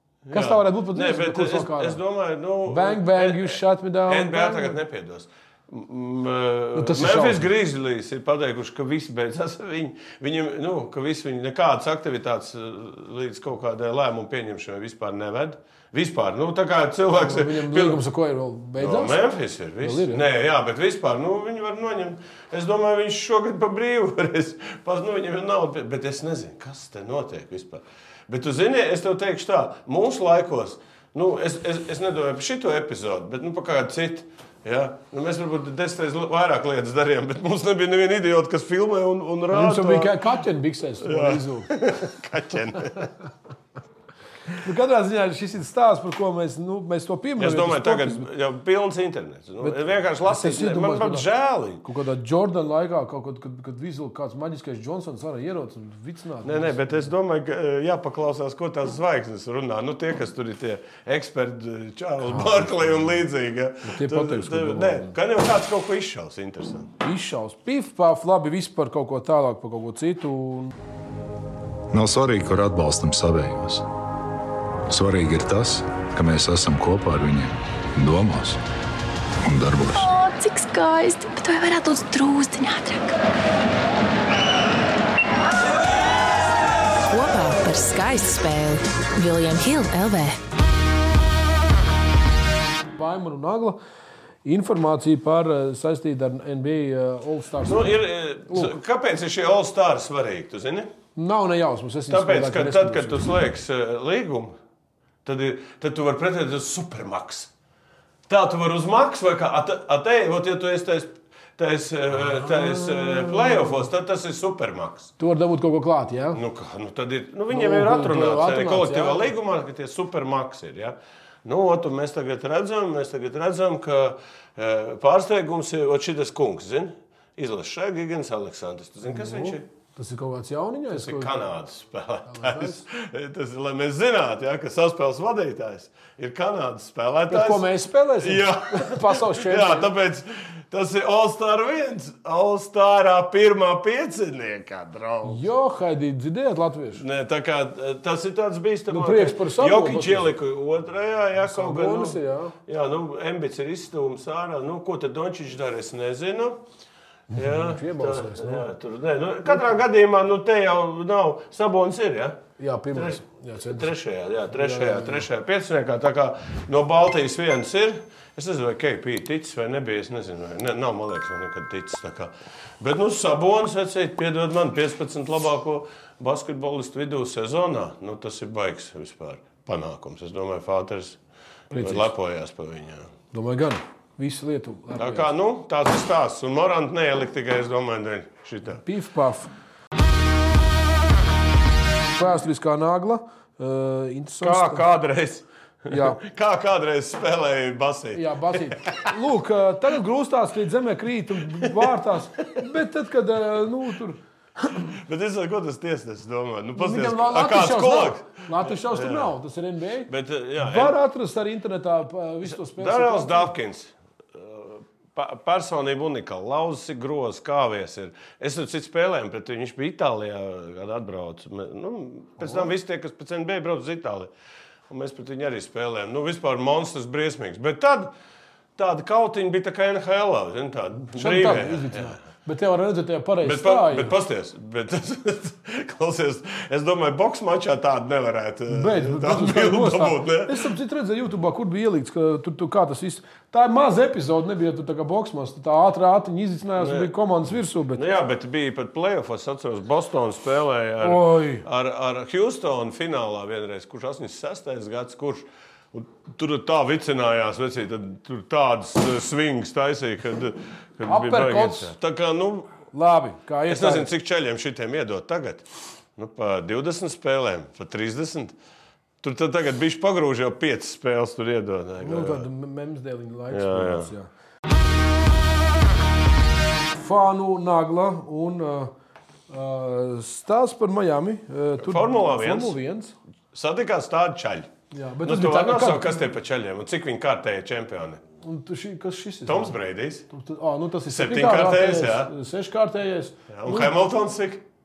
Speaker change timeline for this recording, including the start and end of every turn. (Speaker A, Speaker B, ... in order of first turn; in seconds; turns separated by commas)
Speaker A: 0.2-18.0, Speaker B: 0.3-2.0, Speaker B: 2.7-4.8, Speaker B: 6.7-7.5, Speaker B: 17.1-19.2, Speaker A: 18.8-40.4, Speaker B: 19.8-20.2, Speaker B: 39.5-42.0, Speaker A: 41.0-43.1, Speaker B: 44.6-48.2, Speaker A: 47.4-51.8, Speaker B: 49.6-51.2, Speaker B: 51.8-57.0, Speaker A: 56.4-66.9, Speaker B: 62.2-62.7, Speaker B: 63.8-65.1, Speaker B: 67.0-70.7, Speaker C: 71.9-73.8, Speaker C: 74.9-78.6, Speaker C: 79.4-80.1, Speaker D: 80.0-83.2, Speaker E: 87.0-90.4, Speaker B: 93.0-93.8, Speaker B: 94.4-97.9, Speaker A: 97.6-100.9, Speaker B: 101.2-103.2, Speaker A: 102.1-104.5, Speaker A: 105.2-107.5, Speaker A: 108.3-115.1, Speaker B: 112.4-113.8, Speaker B: 115.2-116.4, Speaker A: 116.3-129.6, Speaker B: 117.5-119.2, Speaker B: 129.1-131.4, Speaker A: 130.9-145.4, Speaker B: 132.3-132.8, Speaker B: 137.3-139.9, Speaker B: 145.2-147.0, Speaker A: 147.0-156.6, Speaker B: 148.9-150.3, Speaker B: 151.4-152.6, Speaker A: 157.3-162.4, Speaker B: 157.3-158.7, Speaker B: 162.6-163.9, Speaker A: 162.9-181.2, Speaker B: 164.5-165.2, Speaker B: 181.7-182.1, Speaker A: 181.7-183.1, Speaker B: 183.3-185.3, Speaker A: 185.0-188.8, Speaker B: 188.8-189.5, Speaker B: 192.2-194.8, Speaker A: 194.4-199.2, Speaker B: 195.9-196.2, Speaker B: 198.1-204.8, Speaker A: 201.5-201.9, Speaker A: 204.9-209.3, Speaker B: 206.8-213.5, Speaker A: 210.1-211.0, Speaker A: 212.4-224.3, Speaker B: 222.4-222.7, Speaker A: 224.9-228.1, Speaker A: 228.8-232.2, Speaker B: 231.1-234.1, Speaker A: 233.4-240.7, Speaker B: 238.7-248.0, Speaker A: 246.8-247.1, Speaker A: 247.9-262.8, Speaker B: 251.0-251.6, Speaker B: 261.1-261.9, Speaker B: 262.9-264.1, Speaker A: 263.7-268.5, Speaker A: 269.2-272.4, Speaker B: 272.0-274.3, Speaker A: 273.5-274.1, Speaker B: 276.9-278.9, Speaker B: 279.5-283.1, Speaker A: 281.8-282.8, Speaker A: 283.5-284.7, Speaker B: 284.9-286.2, Speaker A: 285.2-288.2, Speaker B: 288.4-289.7, Speaker A: 289.4-290.3, Speaker B: 290.3-294.0, Speaker A: 291.1-292.3, Speaker A: 293.5-294.6